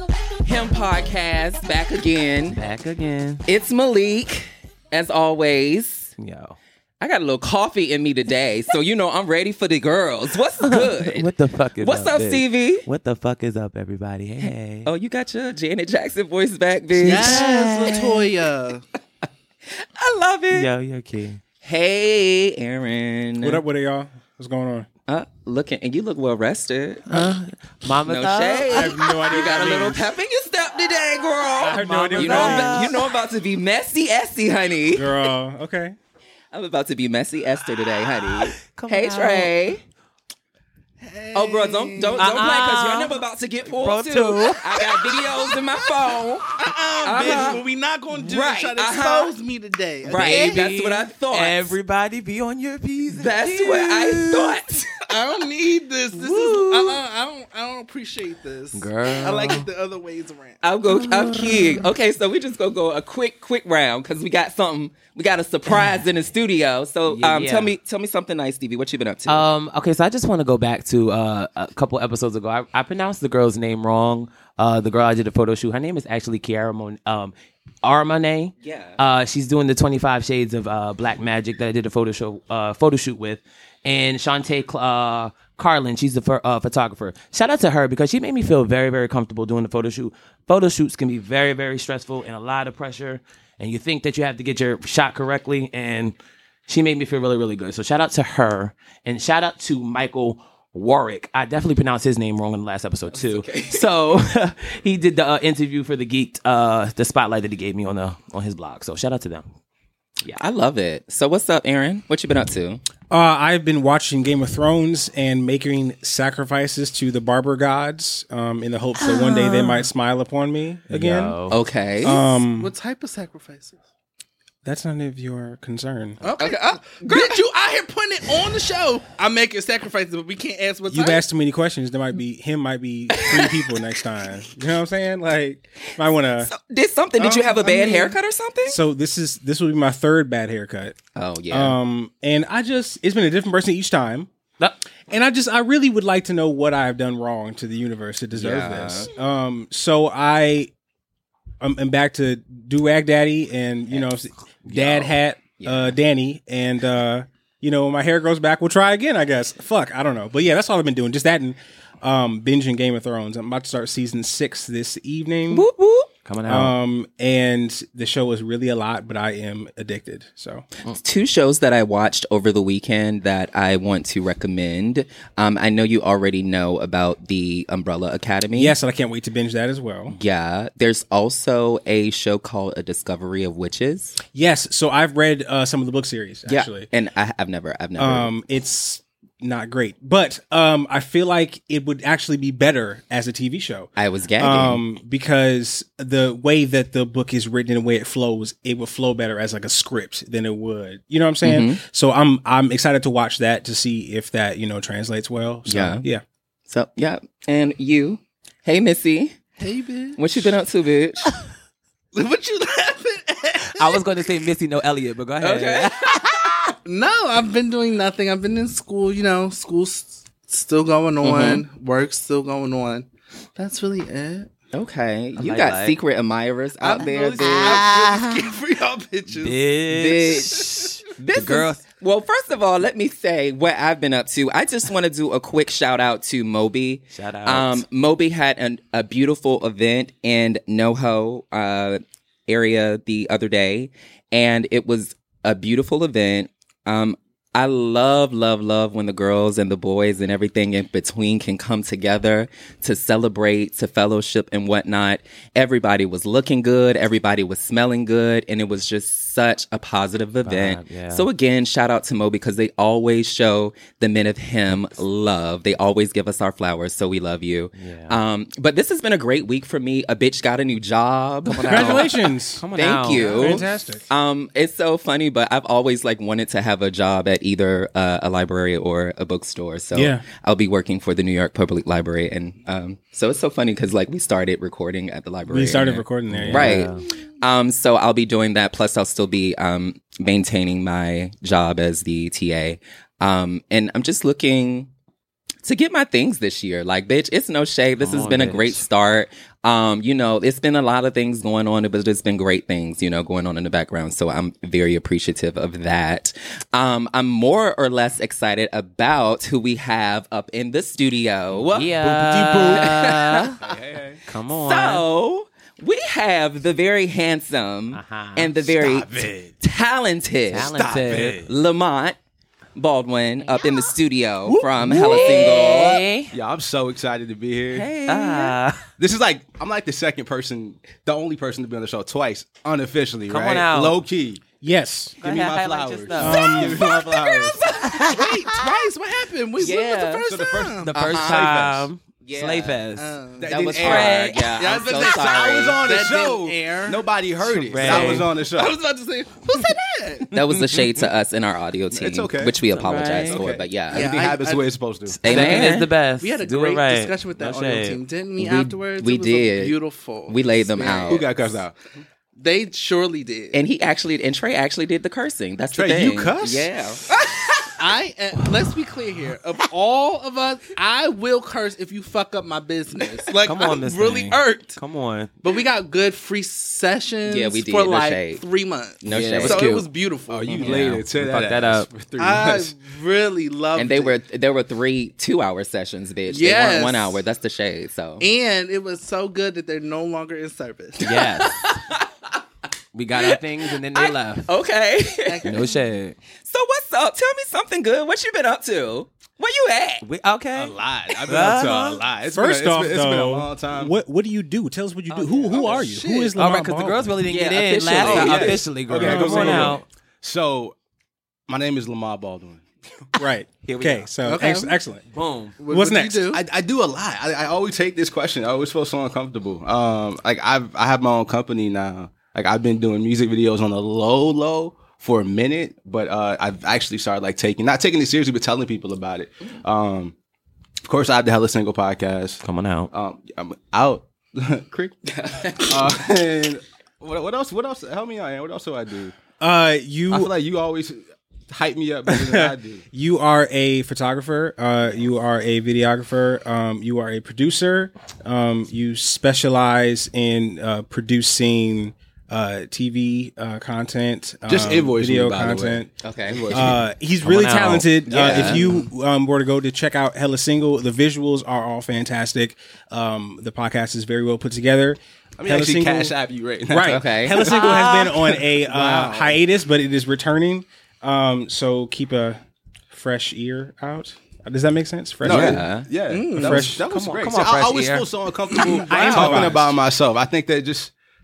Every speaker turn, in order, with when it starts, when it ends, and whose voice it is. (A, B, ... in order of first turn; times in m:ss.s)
0:00.4-0:02.6 A
0:02.5-0:03.4 B
0:03.5-0:06.1 A
0:06.2-0:06.6 B
0:07.0-0:11.3 A
0:10.6-0:14.9 B
0:11.8-0:12.8 A
0:14.4-0:18.2 A
0:17.0-0:18.0 B
0:17.0-0:18.8 C
0:19.8-0:20.7 A
0:20.5-0:21.4 B
0:21.6-0:23.6 A
0:23.4-0:24.9 D
0:25.1-0:27.3 A
0:27.1-0:29.8 B
0:28.0-0:35.1 A
0:28.6-0:30.0 D
0:31.6-0:32.9 D
0:31.7-0:33.1 B
0:34.9-0:36.0 D
0:36.5-0:39.8 A
0:38.2-0:39.8 B
0:41.0-0:42.7 C
0:41.3-0:47.6 A
0:42.2-0:45.0 B
0:46.5-0:50.7 C
0:48.2-0:49.3 A
0:50.0-0:51.7 A
0:50.1-0:54.6 B
0:53.1-0:55.2 A
0:55.1-1:00.6 C
0:56.2-0:57.0 A
0:58.7-0:59.6 B
1:00.6-1:09.4 A
1:00.9-1:01.9 B
1:07.0-1:07.7 B
1:09.3-1:36.1 B
1:18.6-1:19.0 A
1:36.7-1:49.4 B
1:43.1-1:43.8 A
1:50.3-1:52.8 A
1:53.1-2:01.4 D
1:59.1-1:59.4 A
2:00.9-2:01.6 B
2:01.5-2:02.2 A
2:02.0-2:02.7 D
2:02.0-2:03.8 C
2:04.6-2:06.2 D
2:06.2-2:11.2 C
2:06.4-2:07.4 A
2:10.9-2:16.5 D
2:13.1-2:13.7 A
2:16.4-2:18.8 A
2:17.2-2:18.1 E
2:18.6-2:21.0 D
2:21.1-2:21.7 A
2:21.5-2:24.3 D
2:25.1-2:30.7 D
2:28.4-2:29.1 A
2:31.6-2:45.7 D
2:34.7-2:36.0 A
2:45.5-2:46.1 A
2:46.2-2:46.7 B
2:46.5-2:50.6 D
2:50.9-2:58.7 A
2:58.5-3:00.2 D
3:00.1-3:04.2 A
3:04.3-3:06.9 D
3:06.5-3:08.3 A
3:08.0-3:26.2 D
3:14.0-3:14.8 A
3:21.4-3:21.8 A
3:25.7-3:26.0 A
3:26.7-3:29.4 A
3:29.6-3:30.5 C
3:30.2-3:31.4 A
3:32.1-3:34.0 C
3:33.8-3:36.6 B
3:35.4-3:36.5 A
3:36.8-3:44.5 C
3:41.2-3:41.6 A
3:44.7-3:47.9 A
3:45.4-3:46.0 B
3:46.8-3:47.9 E
3:47.0-3:49.6 C
3:49.3-3:51.8 B
3:49.9-4:54.9 A
3:57.1-3:57.8 B
4:20.4-4:21.2 B
4:27.7-4:28.2 B
4:31.5-4:33.6 B
4:31.7-4:34.0 D
4:39.9-4:40.2 D
4:45.5-4:46.8 D
4:46.3-4:47.0 B
4:55.6-5:11.9 A
4:58.0-4:58.8 B
5:11.7-5:13.6 B
5:11.8-5:12.9 E
5:12.7-5:13.6 A
5:13.6-5:14.2 E
5:14.3-5:15.0 B
5:14.5-5:20.7 A
5:17.9-5:18.6 B
5:18.6-5:19.5 E
5:20.5-5:21.5 B
5:20.6-5:21.5 E
5:21.5-5:22.2 A
5:22.7-5:26.0 A
5:24.5-5:25.5 E
5:24.8-5:26.3 B
5:26.3-5:27.9 E
5:27.7-5:28.5 A
5:28.0-5:28.9 B
5:29.0-5:34.4 E
5:33.3-5:34.0 B
5:34.6-5:35.2 D
5:35.2-5:36.5 B
5:35.2-5:37.6 E
5:36.2-5:36.8 D
5:36.3-5:38.7 A
5:37.8-5:40.9 C
5:39.6-5:40.3 A
5:40.2-5:41.9 E
5:40.8-5:43.1 B
5:40.9-5:41.7 A
5:42.2-5:42.8 A
5:43.0-5:50.3 C
5:43.4-5:44.2 E
5:43.5-5:45.8 A
5:43.7-5:44.4 B
5:44.8-5:48.8 E
5:47.6-5:48.3 B
5:50.3-5:54.1 A
5:51.9-5:52.6 E
5:52.7-5:53.4 B
5:53.1-5:55.7 E
5:53.9-5:54.7 C
5:55.1-5:58.0 B
5:55.2-5:55.9 A
5:55.3-5:55.7 C
5:56.2-6:01.6 C
5:58.4-5:59.8 A
6:00.3-6:01.3 A
6:01.0-6:01.8 E
6:02.4-6:03.6 C
6:03.5-6:07.8 A
6:05.7-6:06.8 E
6:07.8-6:14.8 C
6:13.4-6:15.3 B
6:15.4-6:20.8 C
6:17.2-6:18.4 A
6:19.0-6:19.6 A
6:19.0-6:19.9 B
6:20.3-6:22.7 E
6:20.5-6:21.9 B
6:22.2-6:24.2 C
6:23.7-6:28.2 A
6:26.3-6:27.2 C
6:28.2-6:31.1 C
6:31.0-6:31.6 B
6:31.0-6:32.1 A
6:32.9-6:34.5 B
6:33.2-6:35.6 A
6:35.2-6:35.7 C
6:35.4-6:36.2 B
6:36.4-6:40.0 A
6:40.0-6:42.0 B
6:40.5-6:43.9 E
6:42.3-6:47.2 D
6:45.1-6:45.8 A
6:45.6-6:46.3 C
6:46.4-6:49.8 B
6:47.3-6:48.7 A
6:48.0-6:50.8 E
6:49.0-6:49.8 D
6:51.5-6:52.6 E
6:53.2-6:55.0 D
6:53.6-6:54.1 B
6:54.2-6:54.8 C
6:55.1-6:55.6 B
6:55.6-6:56.4 C
6:55.7-6:56.2 D
6:56.3-7:10.1 E
7:10.8-7:14.9 E
7:12.4-7:12.9 B
7:15.2-7:15.8 A
7:15.5-7:19.1 E
7:19.4-7:20.3 D
7:20.1-7:22.8 E
7:22.1-7:35.9 D
7:34.5-7:36.8 E
7:36.0-7:36.7 A
7:36.5-7:46.1 D
7:37.2-7:38.6 B
7:38.1-7:38.7 A
7:45.4-7:48.2 E
7:46.7-7:52.4 D
7:46.9-7:47.4 A
7:47.5-7:48.2 B
7:48.7-7:49.3 C
7:52.9-7:55.6 D
7:55.2-8:00.9 E
7:55.2-7:55.9 A
7:56.1-7:56.7 C
7:56.4-7:56.8 D
7:56.8-7:58.1 B
7:58.5-7:59.5 C
7:58.9-7:59.7 D
7:59.2-7:59.5 B